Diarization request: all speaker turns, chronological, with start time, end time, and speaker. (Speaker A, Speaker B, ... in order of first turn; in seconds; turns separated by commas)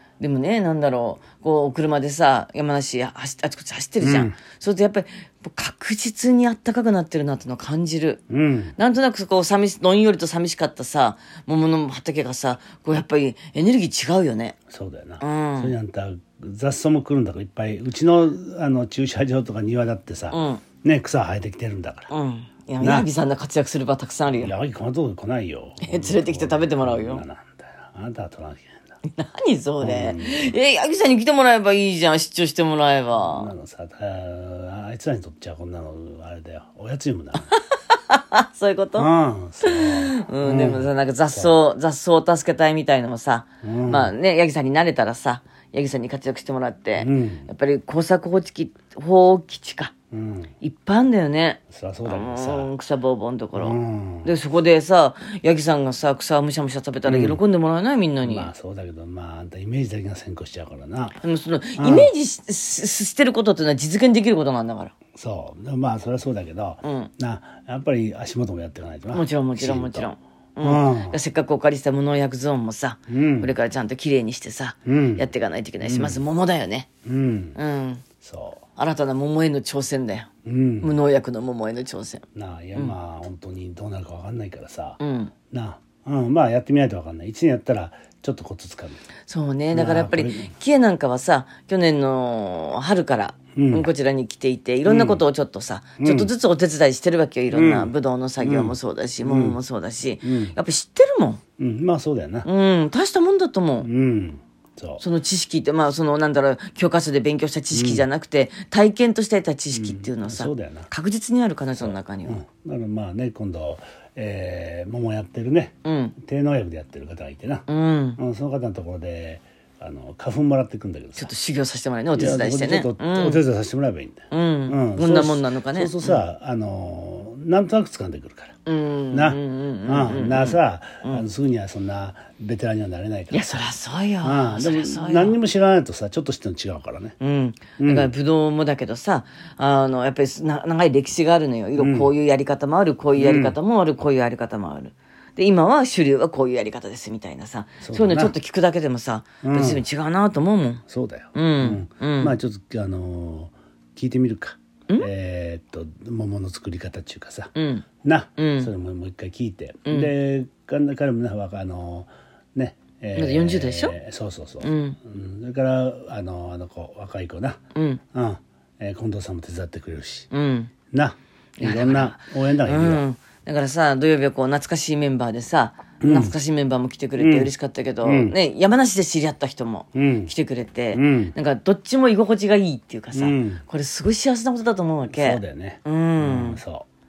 Speaker A: 0.2-8.2, Speaker B: 4.0-4.4, Speaker B: 8.3-8.7, Speaker A: 8.8-14.6, Speaker B: 14.7-22.1, Speaker A: 15.2-15.7, Speaker A: 20.3-20.6, Speaker A: 22.1-24.5, Speaker B: 22.8-23.1, Speaker B: 24.3-28.9, Speaker A: 25.8-27.2, Speaker A: 29.1-33.5, Speaker B: 29.8-30.6, Speaker B: 33.2-37.5, Speaker A: 38.1-39.1, Speaker B: 38.9-41.5, Speaker A: 39.6-49.9, Speaker B: 43.6-44.1, Speaker B: 47.0-47.5, Speaker B: 50.1-50.5, Speaker A: 50.6-58.5, Speaker B: 51.7-52.7, Speaker B: 53.5-54.3, Speaker B: 57.0-57.4, Speaker B: 58.2-61.2, Speaker A: 61.2-64.9, Speaker B: 61.8-62.1, Speaker B: 65.1-70.1, Speaker A: 66.8-67.1, Speaker A: 69.1-76.9, Speaker B: 70.6-71.2, Speaker B: 73.1-73.5, Speaker B: 74.8-75.3, Speaker B: 75.8-76.2, Speaker B: 77.0-77.6, Speaker A: 77.5-78.0, Speaker B: 78.2-78.6, Speaker A: 78.8-80.3, Speaker B: 80.4-81.0, Speaker A: 80.8-82.2, Speaker B: 82.3-89.0, Speaker A: 85.0-85.3, Speaker A: 89.3-101.4, Speaker B: 89.7-90.5, Speaker B: 93.5-93.9, Speaker B: 94.8-95.2, Speaker B: 96.0-96.3, Speaker B: 97.5-99.6, Speaker B: 100.2-100.5, Speaker B: 101.6-102.5, Speaker A: 102.4-103.9, Speaker B: 103.8-105.0, Speaker A: 105.0-112.4, Speaker B: 107.7-108.0, Speaker B: 109.7-110.9, Speaker B: 111.7-121.3, Speaker A: 115.8-116.2, Speaker A: 117.7-118.2, Speaker A: 121.2-123.4, Speaker B: 122.2-128.6, Speaker A: 124.3-126.2, Speaker A: 128.7-131.2, Speaker B: 129.1-137.2, Speaker A: 133.3-135.4, Speaker A: 137.2-150.8, Speaker B: 137.8-138.1, Speaker B: 141.8-142.1, Speaker B: 143.2-143.6, Speaker B: 147.8-148.3, Speaker B: 149.4-149.8, Speaker B: 150.9-167.6, Speaker A: 151.3-152.3, Speaker A: 157.5-158.7, Speaker A: 159.8-160.1, Speaker A: 163.2-163.9, Speaker A: 164.6-165.0, Speaker A: 167.7-168.0, Speaker B: 168.1-170.3, Speaker A: 170.3-170.7, Speaker B: 170.9-173.0, Speaker A: 171.6-186.6, Speaker B: 176.0-176.3, Speaker B: 177.2-177.5, Speaker B: 178.0-178.3, Speaker B: 179.9-180.3, Speaker B: 180.9-181.3, Speaker B: 183.1-183.6, Speaker B: 185.1-186.8